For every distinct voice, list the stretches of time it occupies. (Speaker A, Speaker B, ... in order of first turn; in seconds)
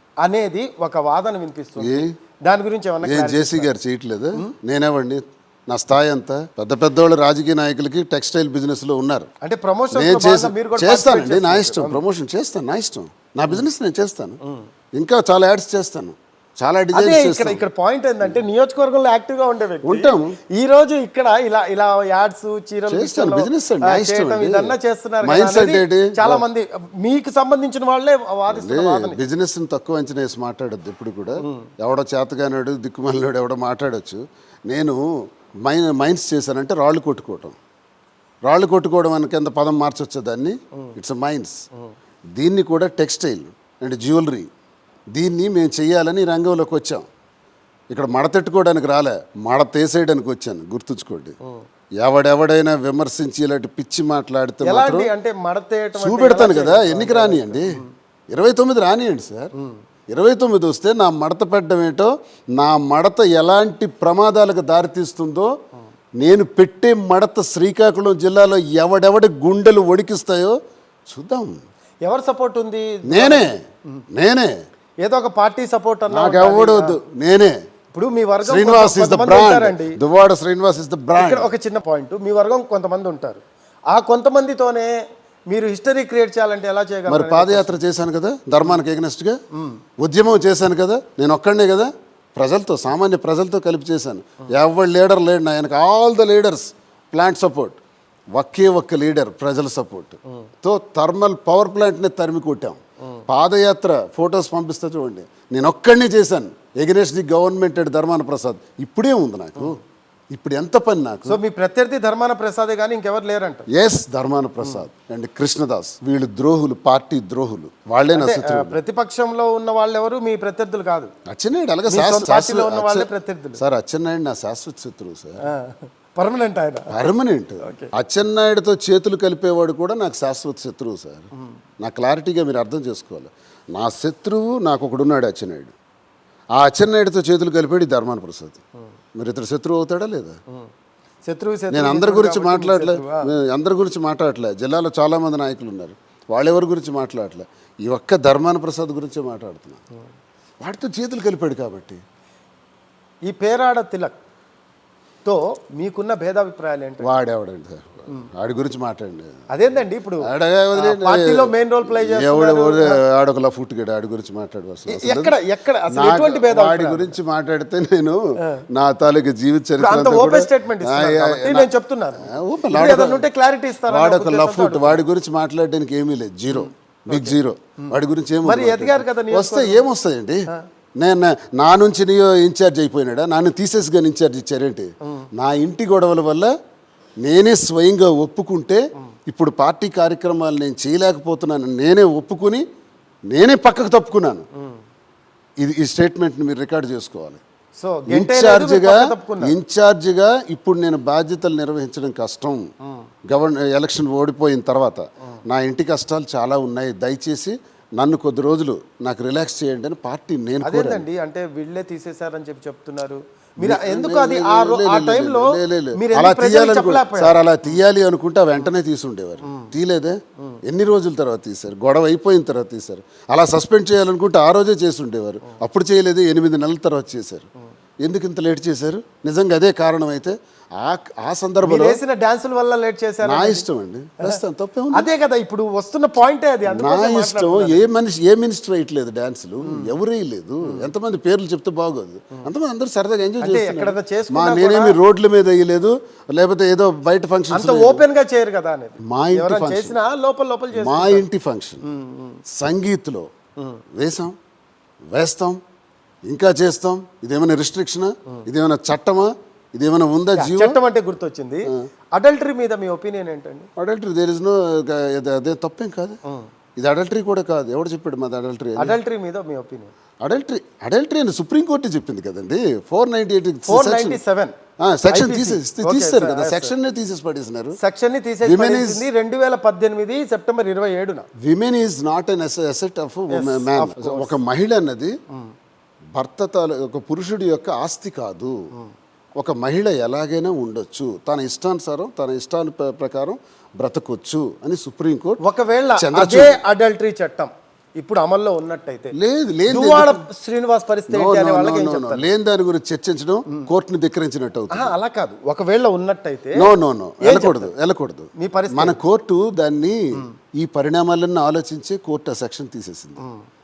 Speaker A: 0.2-3.7, 9.4-12.0, 16.9-29.2, 54.6-57.9, 72.0-74.0, 75.0-77.0, 77.9-80.0, 81.2-85.0, 85.5-87.8, 111.3-113.7, 118.1-121.1, 121.9-123.6, 125.4-127.1, 127.6-127.9, 141.3-143.3, 153.3-154.1, 155.2-157.1, 159.5-163.0, 164.9-167.2, 169.8-175.0, 176.5-177.4, 178.4-179.8, 197.8-199.6, 210.6-217.4, 231.6-233.7, 234.9-237.9, 239.7-239.9, 243.4-245.0, 247.5-251.2, 251.8-252.4, 260.4-263.7, 268.8-269.9, 273.7-274.5, 275.1-276.7, 277.8-281.3, 283.3-284.3, 295.4-299.1, 299.7-302.3, 304.7-306.7, 307.2-307.7, 308.4-309.0
Speaker B: 1.8-2.1, 3.0-9.3, 9.9-14.4, 15.0-17.6, 19.8-20.4, 22.9-26.4, 28.5-35.0, 35.6-37.6, 38.5-41.6, 42.4-44.5, 45.1-47.0, 47.9-51.4, 52.0-55.1, 56.0-59.5, 60.1-65.5, 66.2-70.6, 71.1-71.6, 73.1-73.6, 74.1-74.5, 76.1-77.6, 78.5-81.5, 87.1-89.4, 90.0-97.8, 98.3-109.8, 110.3-111.4, 113.7-118.8, 121.3-125.4, 126.9-131.3, 131.8-135.7, 136.5-138.6, 139.2-140.4, 141.7-149.8, 150.6-152.0, 157.0-159.4, 160.2-165.3, 165.9-171.7, 172.2-173.3, 173.9-180.5, 181.0-186.5, 187.2-192.6, 193.3-194.4, 195.6-197.4, 198.1-202.7, 203.3-211.1, 213.6-227.5, 228.0-232.0, 233.2-235.1, 236.7-248.0, 249.1-250.0, 250.7-251.8, 252.5-253.3, 254.0-254.3, 255.1-255.6, 256.3-260.8, 263.8-266.2, 266.8-269.0, 270.2-274.2, 274.8-277.8, 278.4-279.1, 281.4-285.2, 286.1-288.6, 289.4-295.4, 296.0-296.6, 299.1-300.2, 301.1-304.9, 306.6-313.2